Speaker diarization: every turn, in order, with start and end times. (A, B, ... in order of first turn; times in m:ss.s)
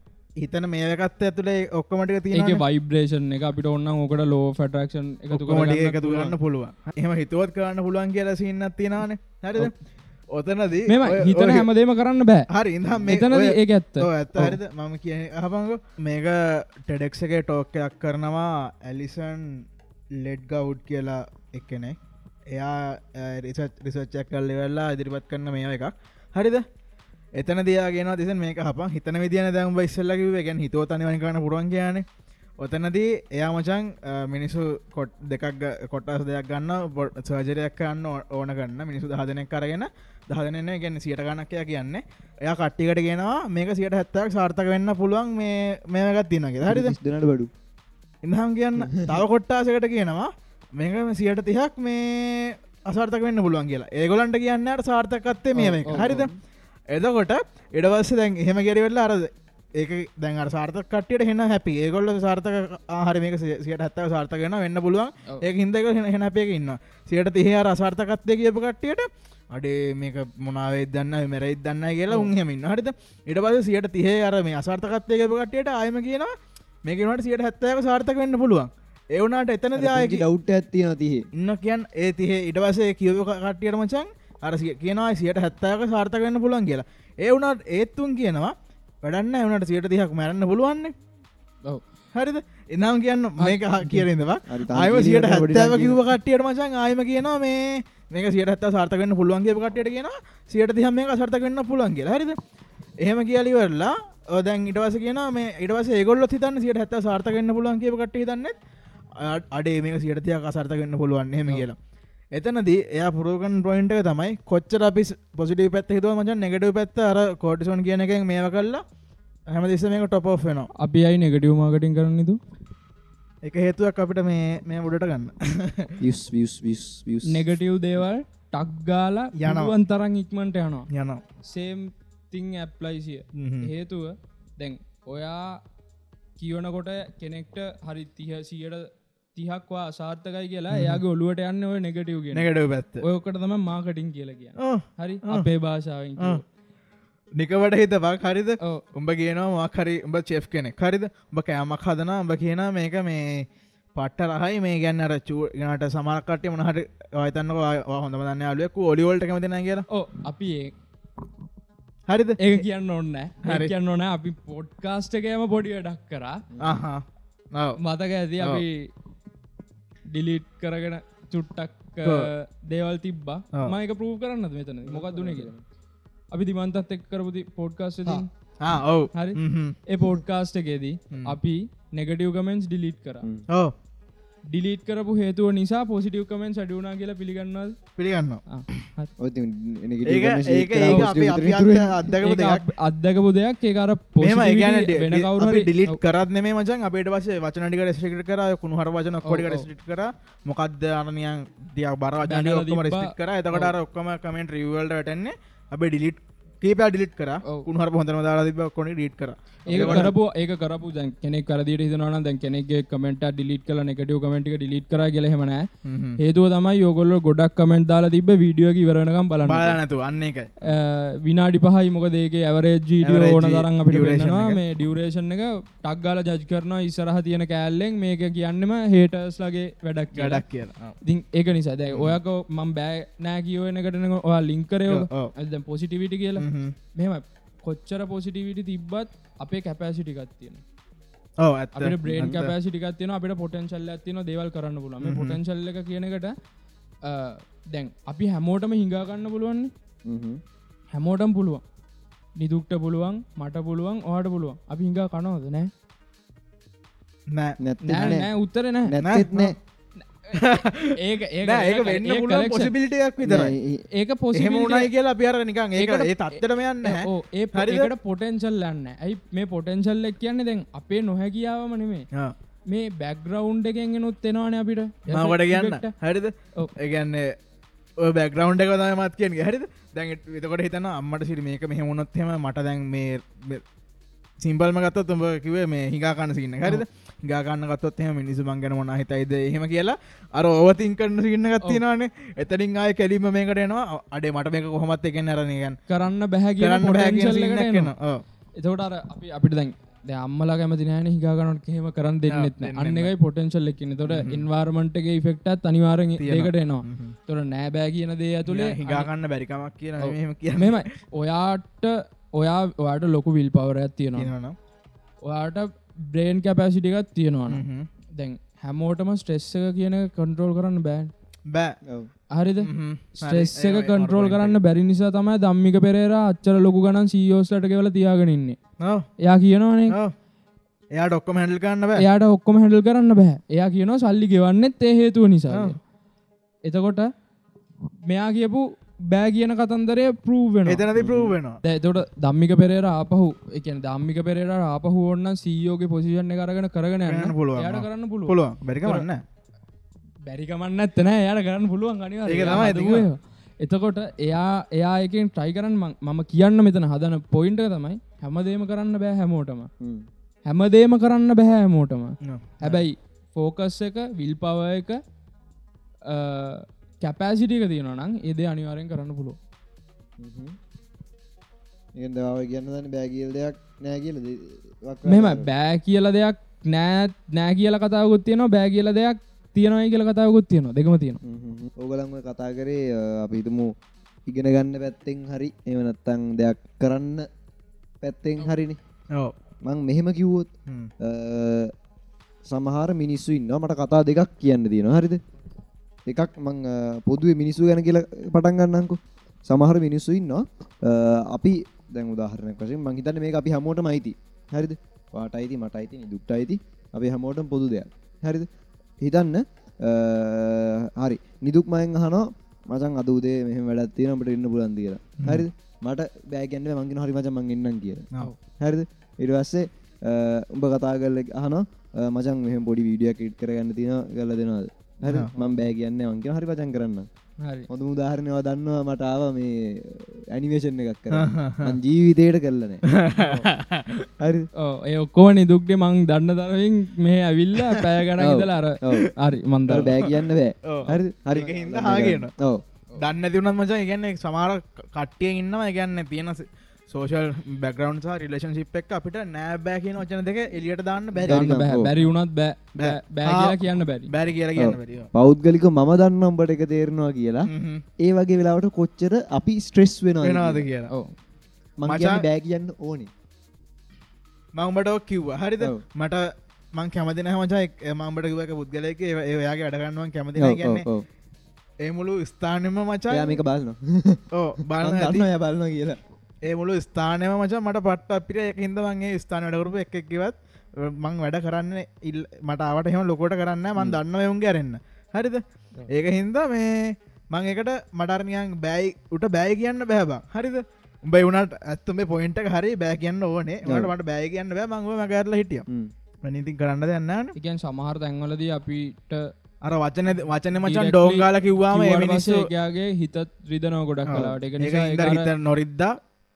0:00.4-0:02.6 A
0:02.3-0:06.3 B
0:05.3-0:09.7 A
0:10.3-0:11.7 A
0:10.9-0:12.5 B
0:12.5-0:19.6 A
0:13.0-0:14.6 B
0:20.1-0:22.0 A
0:22.5-0:26.6 A
0:27.4-0:32.0 A
0:32.6-0:46.9 A
0:46.6-0:47.5 C
0:48.2-0:56.3 A
0:55.5-0:56.3 C
0:56.9-1:16.3 A
1:16.8-1:20.2 A
1:19.8-1:21.2 C
1:21.4-1:30.9 A
1:32.1-1:42.4 A
1:33.4-1:34.0 B
1:34.5-1:36.0 C
1:43.0-1:48.5 A
1:49.2-1:51.8 A
1:52.3-1:58.8 A
1:59.5-2:00.7 A
2:00.8-2:02.4 B
2:03.4-2:05.9 A
2:06.0-2:07.4 C
2:07.3-2:10.9 B
2:09.4-2:09.7 A
2:10.9-2:11.2 A
2:11.5-2:15.6 B
2:13.4-2:13.7 A
2:16.4-2:22.5 B
2:20.7-2:21.0 A
2:22.3-2:23.0 A
2:23.0-2:26.4 B
2:24.6-2:25.5 A
2:27.4-2:39.8 A
2:39.9-2:40.7 B
2:42.1-2:42.4 A
2:42.4-2:46.4 B
2:43.4-2:43.7 A
2:46.6-2:47.0 A
2:47.5-2:47.8 A
2:47.8-2:48.9 B
2:50.1-2:55.5 B
2:54.8-2:55.6 C
2:56.3-2:58.3 B
2:58.6-2:59.8 A
2:59.1-3:03.2 B
3:03.5-3:03.7 A
3:04.5-3:07.8 B
3:08.0-3:08.4 A
3:08.5-3:09.1 B
3:09.2-3:12.0 C
3:10.0-3:12.6 A
3:12.2-3:16.0 B
3:14.2-3:30.1 A
3:19.2-3:19.6 B
3:22.2-3:23.7 B
3:29.7-3:30.1 C
3:29.7-3:35.7 B
3:35.8-3:36.2 A
3:36.2-3:39.8 B
3:39.4-3:40.5 A
3:40.6-3:50.4 B
3:43.0-3:44.6 A
3:50.1-3:51.0 A
3:51.0-4:00.6 B
3:54.9-3:55.3 A
3:56.4-3:56.7 A
4:01.4-4:02.5 A
4:01.8-4:06.3 B
4:02.1-4:02.4 C
4:05.0-4:05.4 A
4:07.0-4:09.7 B
4:10.0-4:10.4 C
4:10.9-4:11.6 B
4:12.4-4:15.7 B
4:17.6-4:18.3 C
4:17.8-4:19.0 B
4:18.8-4:19.5 C
4:19.0-4:19.5 A
4:20.2-4:22.7 B
4:20.3-4:23.5 A
4:23.2-4:23.8 C
4:23.9-4:24.9 B
4:24.3-4:27.9 A
4:25.8-4:32.0 B
4:32.7-4:35.9 B
4:35.1-4:37.3 A
4:38.0-4:43.6 A
4:44.4-4:55.8 A
4:55.9-4:57.9 B
4:56.6-4:58.2 A
4:58.6-5:09.1 B
5:02.3-5:03.1 A
5:04.1-5:04.4 A
5:06.2-5:07.1 A
5:08.4-5:10.8 A
5:10.0-5:14.3 B
5:14.2-5:14.6 A
5:15.2-5:17.6 B
5:17.5-5:17.9 A
5:18.2-5:21.1 B
5:21.5-5:21.7 A
5:22.3-5:28.6 B
5:22.6-5:24.6 A
5:28.8-5:29.0 A
5:29.2-5:30.0 B
5:31.0-5:32.0 A
5:32.0-5:35.8 B
5:36.6-5:37.1 B
5:38.1-5:40.8 B
5:40.6-5:41.6 A
5:41.0-5:41.4 C
5:41.6-5:49.1 B
5:47.1-5:49.2 A
5:50.2-5:59.7 B
5:52.3-5:53.0 A
5:59.8-6:00.1 C
6:00.4-6:05.0 B
6:02.2-6:02.8 A
6:06.0-6:09.4 B
6:10.2-6:10.6 C
6:12.0-6:15.5 C
6:15.0-6:21.2 B
6:21.2-6:23.7 C
6:24.3-6:27.3 C
6:28.0-6:28.8 C
6:29.6-6:30.5 C
6:31.0-6:31.7 C
6:32.5-6:35.2 C
6:36.1-6:48.5 C
6:49.0-7:07.1 C
7:05.0-7:05.5 A
7:07.4-7:07.7 B
7:07.7-7:12.8 C
7:11.1-7:11.8 A
7:12.9-7:14.1 A
7:13.2-7:13.5 B
7:14.2-7:14.5 C
7:14.6-7:20.0 B
7:18.2-7:19.1 C
7:19.7-7:22.6 C
7:20.7-7:22.3 A
7:23.0-7:31.5 A
7:31.1-7:31.9 C
7:31.3-7:34.1 B
7:32.8-7:35.1 A
7:34.6-7:37.5 C
7:37.5-7:37.8 A
7:38.0-7:40.6 C
7:40.2-7:40.9 A
7:41.8-7:43.1 C
7:41.9-7:42.2 A
7:44.6-7:50.8 A
7:50.4-7:51.0 C
7:51.8-7:53.4 A
7:53.1-7:54.2 C
7:54.3-7:55.3 A
7:54.7-7:56.0 C
7:56.4-8:15.6 A
8:13.6-8:13.9 C
8:16.2-8:17.4 A
8:17.4-8:19.3 B
8:19.6-8:22.5 A
8:20.6-8:25.3 B
8:24.1-8:26.0 A
8:24.1-8:24.4 C